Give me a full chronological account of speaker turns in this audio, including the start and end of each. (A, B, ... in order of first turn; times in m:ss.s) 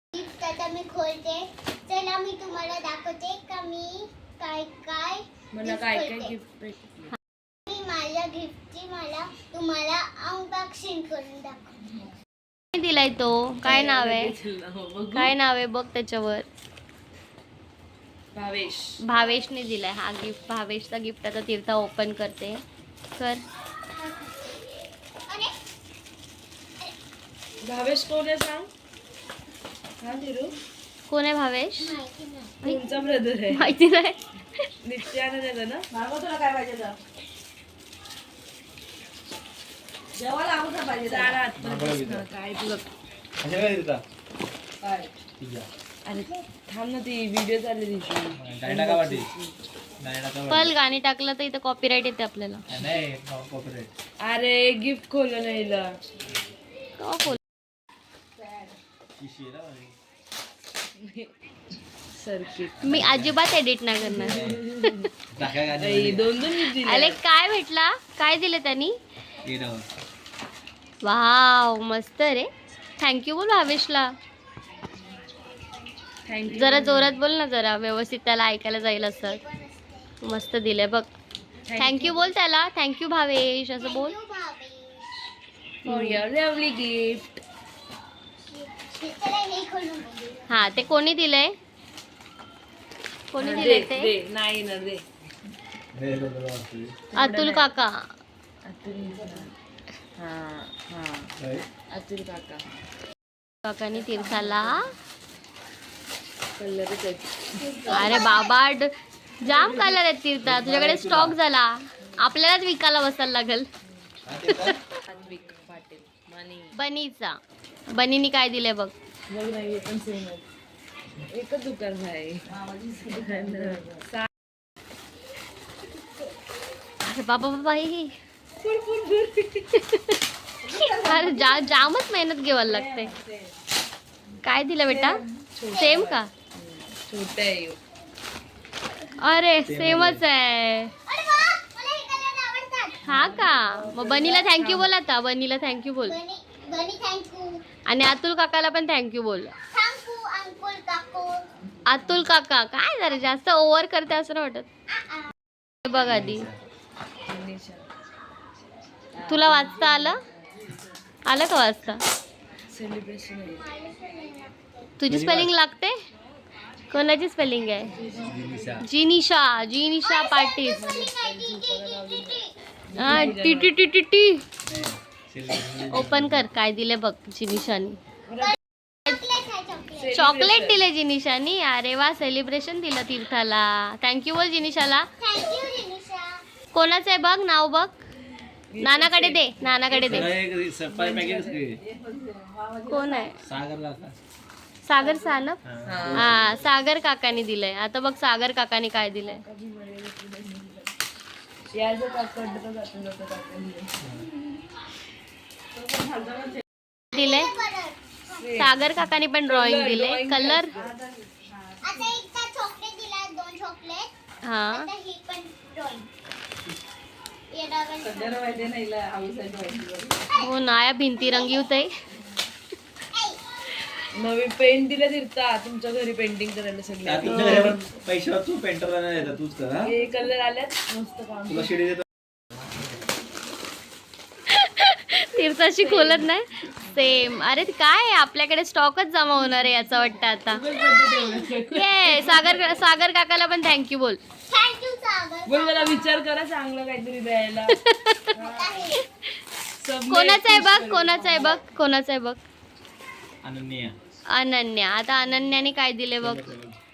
0:00.1-0:06.4 A
0:05.5-0:07.2 B
0:07.7-0:11.9 A
0:12.7-0:14.3 C
0:13.6-0:15.3 B
0:15.1-0:16.5 C
0:18.3-0:19.0 B
0:19.0-0:22.6 C
0:19.1-0:19.5 A
0:23.2-0:23.4 C
0:24.0-0:24.5 A
0:25.3-0:25.5 A
0:27.6-0:28.7 B
0:30.0-0:30.5 B
0:31.1-0:32.0 C
0:31.8-0:32.6 A
0:32.6-0:33.7 B
0:33.5-0:34.7 C
0:34.8-0:35.9 B
0:35.9-0:37.0 D
0:40.2-0:41.3 D
0:41.1-0:42.9 B
0:41.6-0:42.3 E
0:43.4-0:44.0 E
0:44.8-0:45.1 D
0:45.4-0:45.7 E
0:46.0-0:49.6 B
0:48.3-0:49.3 E
0:50.0-0:50.7 E
0:50.5-0:52.6 C
0:52.7-0:53.9 E
0:54.2-0:55.9 B
0:57.0-0:57.4 C
0:59.2-1:00.0 E
1:01.0-1:01.3 B
1:02.1-1:03.0 B
1:02.8-1:03.4 E
1:02.8-1:05.1 C
1:04.0-1:05.1 B
1:04.2-1:04.6 E
1:05.3-1:06.3 E
1:05.6-1:07.2 B
1:06.7-1:09.0 C
1:09.4-1:09.9 E
1:11.0-1:14.2 C
1:15.0-1:16.1 A
1:16.2-1:17.2 B
1:16.5-1:19.4 C
1:19.2-1:20.2 A
1:20.2-1:21.1 C
1:21.7-1:22.3 B
1:21.8-1:24.2 C
1:23.8-1:25.2 A
1:25.8-1:27.4 B
1:25.9-1:26.2 C
1:28.5-1:30.6 A
1:30.5-1:31.6 C
1:33.3-1:34.1 C
1:33.4-1:35.0 B
1:35.9-1:37.0 E
1:37.1-1:37.7 B
1:37.2-1:38.1 C
1:38.6-1:39.5 B
1:40.2-1:41.3 B
1:41.4-1:41.7 E
1:41.9-1:42.7 B
1:43.6-1:44.9 C
1:43.9-1:44.9 B
1:46.6-1:47.9 B
1:47.6-1:48.0 D
1:47.9-1:48.6 A
1:47.9-1:53.7 C
1:49.5-1:49.9 B
1:50.4-1:51.4 E
1:54.2-1:54.8 E
1:55.1-1:56.7 B
1:56.8-1:57.4 C
1:57.9-1:58.9 C
1:59.3-2:00.5 B
2:01.3-2:02.5 B
2:02.5-2:03.9 D
2:03.1-2:04.3 B
2:07.0-2:08.2 C
2:08.6-2:09.7 B
2:09.8-2:10.2 C
2:10.6-2:11.8 D
2:10.9-2:13.1 C
2:12.7-2:13.3 D
2:14.4-2:15.2 C
2:15.6-2:17.8 B
2:15.7-2:16.0 A
2:15.8-2:16.3 C
2:19.2-2:20.9 C
2:19.7-2:20.2 E
2:21.1-2:23.2 A
2:23.1-2:26.2 C
2:23.1-2:24.9 B
2:26.0-2:27.6 A
2:27.9-2:29.5 C
2:29.7-2:31.4 A
2:31.9-2:34.7 C
2:34.9-2:35.3 A
2:35.9-2:36.5 C
2:35.9-2:36.6 E
2:37.3-2:37.9 B
2:39.1-2:40.2 B
2:39.3-2:40.2 C
2:41.3-2:42.0 C
2:42.7-2:43.6 B
2:43.4-2:44.9 A
2:45.0-2:46.0 C
2:45.1-2:45.5 E
2:46.9-2:47.9 C
2:48.0-2:48.3 B
2:48.2-2:48.8 E
2:48.8-2:50.8 C
2:50.0-2:52.6 A
2:50.8-2:53.8 B
2:53.0-2:54.5 C
2:54.7-2:56.4 E
2:55.9-2:58.0 C
2:58.3-2:58.6 B
2:58.3-3:00.2 A
3:00.0-3:00.8 B
3:00.1-3:05.1 C
3:05.2-3:06.4 A
3:06.7-3:08.0 C
3:08.7-3:11.7 B
3:08.8-3:10.3 C
3:10.0-3:11.8 E
3:11.8-3:13.3 D
3:12.9-3:13.4 C
3:13.4-3:14.1 E
3:14.8-3:15.6 C
3:15.7-3:16.6 E
3:15.9-3:16.4 B
3:16.1-3:19.4 C
3:19.2-3:20.9 B
3:21.7-3:24.0 B
3:24.0-3:24.3 E
3:26.1-3:26.5 D
3:27.1-3:27.5 C
3:27.1-3:28.7 A
3:28.4-3:28.8 B
3:28.6-3:30.7 C
3:29.4-3:31.0 B
3:30.7-3:31.2 D
3:31.8-3:34.1 A
3:34.4-3:34.9 C
3:34.7-3:36.1 A
3:37.5-3:38.6 A
3:38.1-3:40.3 D
3:40.2-3:40.5 A
3:40.4-3:41.9 C
3:41.2-3:41.9 A
3:43.1-3:43.4 A
3:44.1-3:47.8 B
3:47.0-3:49.9 E
3:49.8-3:51.7 B
3:51.5-3:52.0 E
3:54.5-4:00.6 C
3:55.8-3:56.3 B
4:00.5-4:02.8 B
4:00.9-4:01.5 A
4:01.7-4:04.2 C
4:04.5-4:06.1 A
4:05.5-4:07.8 B
4:07.7-4:08.4 C
4:08.3-4:09.1 A
4:08.4-4:08.7 B
4:09.8-4:11.7 B
4:10.1-4:12.4 C
4:13.4-4:14.0 E
4:14.3-4:16.5 C
4:16.2-4:16.8 E